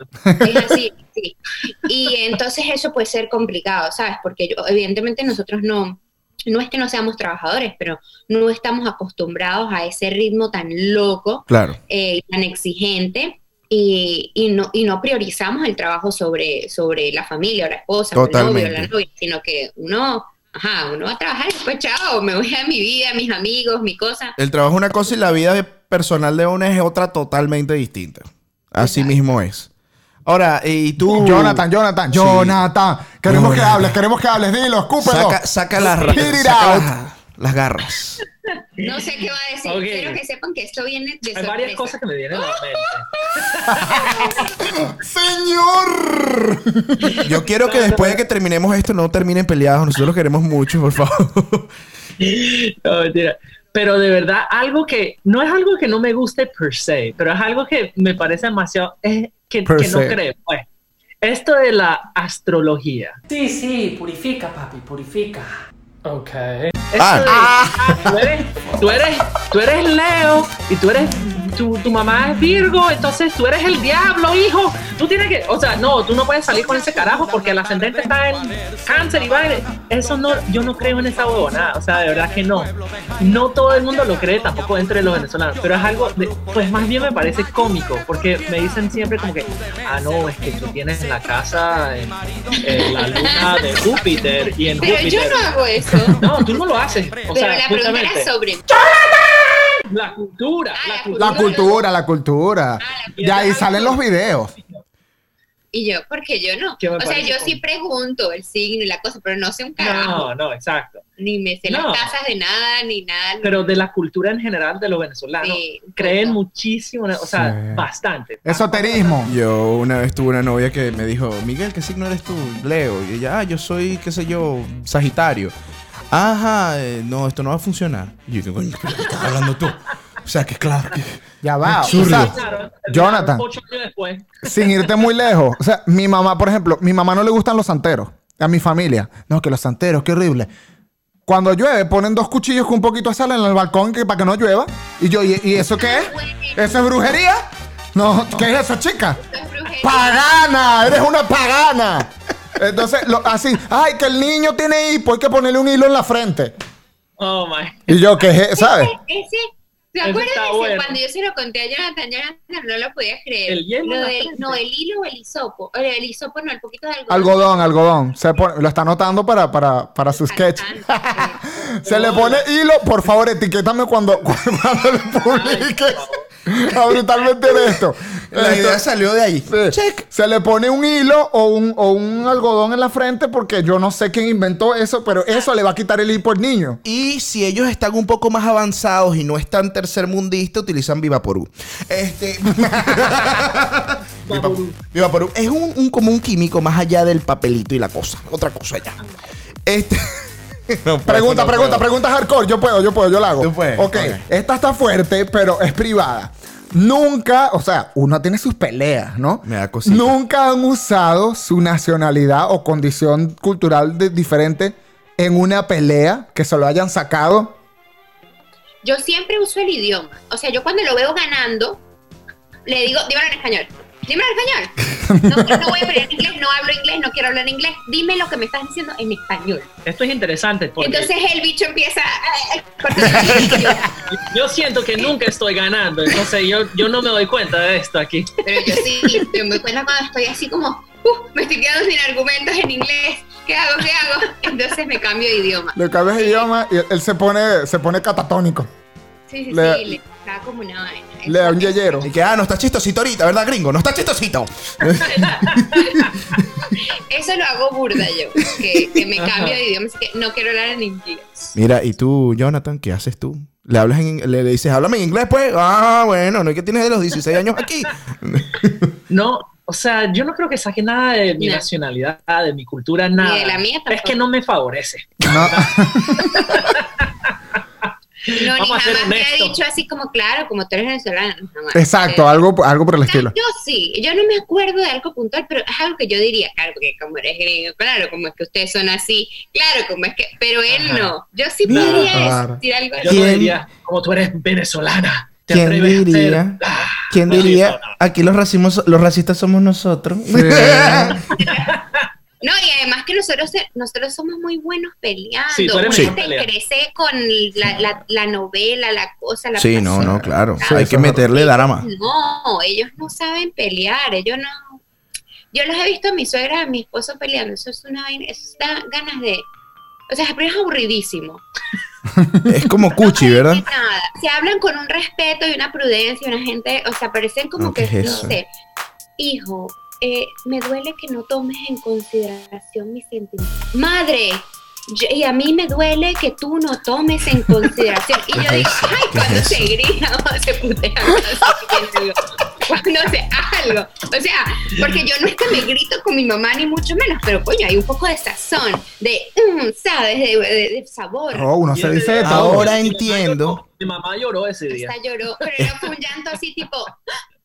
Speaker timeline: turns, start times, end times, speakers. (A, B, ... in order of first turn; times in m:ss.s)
0:00.3-0:00.7 A
0:00.4-0:24.4 B
0:11.5-0:11.8 C
0:18.1-0:18.9 C
0:24.4-0:29.7 C
0:28.8-0:29.2 B
0:30.3-0:32.6 C
0:31.0-0:36.9 A
0:33.3-0:34.0 C
0:35.0-0:38.2 C
0:38.8-0:42.0 B
0:39.7-0:40.2 D
0:41.4-0:44.4 D
0:43.7-0:47.2 A
0:47.1-0:48.2 D
0:47.2-0:51.7 C
0:52.2-1:00.7 D
0:59.7-1:00.2 A
1:01.2-1:03.2 D
1:03.3-1:05.5 E
1:06.1-1:06.5 E
1:06.2-1:35.5 D
1:07.0-1:07.5 C
1:07.2-1:08.0 A
1:32.6-1:33.5 B
1:34.8-1:36.2 B
1:36.2-1:38.3 D
1:37.3-1:38.7 B
1:39.9-1:41.7 D
1:40.8-1:41.8 B
1:41.2-1:44.6 A
1:42.8-1:43.2 B
1:43.2-1:44.0 D
1:45.7-1:50.3 B
1:46.8-1:47.6 D
1:49.8-1:51.0 D
1:51.2-1:53.6 B
1:51.7-1:52.1 D
1:53.4-1:59.2 D
1:55.4-1:56.4 B
1:57.3-1:57.9 A
1:58.4-1:59.3 A
1:59.2-2:05.5 C
2:06.1-2:12.4 C
2:11.4-2:12.4 A
2:11.9-2:14.9 D
2:12.9-2:13.4 A
2:14.4-2:20.5 A
2:21.3-2:29.2 A
2:25.8-2:26.8 B
2:29.2-2:30.2 B
2:29.8-2:36.5 A
2:37.2-2:38.1 D
2:37.9-2:38.9 A
2:38.6-2:47.7 B
2:40.0-2:41.0 D
2:43.5-2:44.6 D
2:47.1-2:58.8 A
2:50.1-2:51.4 B
2:51.8-2:52.5 D
2:55.2-2:56.3 D
2:58.3-3:00.0 C
2:59.5-3:06.8 A
3:06.8-3:19.0 C
3:12.7-3:13.1 A
3:14.3-3:14.8 D
3:19.7-3:21.9 C
3:21.0-3:37.6 A
3:23.4-3:24.2 C
3:29.4-3:30.2 C
3:38.8-3:41.8 B
3:42.7-3:49.7 B
3:45.0-3:45.8 A
3:49.8-3:51.1 D
3:50.8-3:53.9 B
3:53.0-3:53.8 A
3:54.1-3:59.4 D
3:58.4-4:06.5 B
4:05.8-4:08.7 A
4:09.3-4:12.1 B
4:09.5-4:10.0 A
4:11.3-4:12.1 A
4:12.0-4:16.4 C
4:15.2-4:15.9 D
4:16.8-4:21.6 B
4:19.2-4:19.6 D
4:21.6-4:28.9 C
4:29.1-4:37.3 D
4:31.4-4:31.7 B
4:33.2-4:34.2 B
4:35.2-4:36.5 A
4:38.3-4:39.6 D
4:38.3-4:42.4 B
4:41.7-4:43.3 A
4:43.1-4:53.2 B
4:50.7-4:51.2 D
4:51.7-4:52.3 D
4:51.7-4:52.1 C
4:52.1-4:52.6 A
4:53.0-4:58.0 D
4:53.1-4:53.6 C
4:55.5-5:01.2 C
5:00.3-5:01.2 A
5:01.3-5:01.8 B
5:01.5-5:02.0 D
5:02.4-5:14.8 B
5:05.5-5:06.5 D
5:09.6-5:11.9 C
5:10.2-5:11.2 A
5:15.5-5:19.5 B
5:20.1-5:21.4 B
5:22.2-5:22.5 A
5:22.5-5:23.6 C
5:22.9-5:28.5 B
5:27.6-5:28.4 C
5:29.2-5:51.5 B
5:38.4-5:39.7 C
5:51.3-5:52.7 A
5:51.7-5:54.9 D
5:52.2-5:53.6 C
5:54.7-5:57.0 B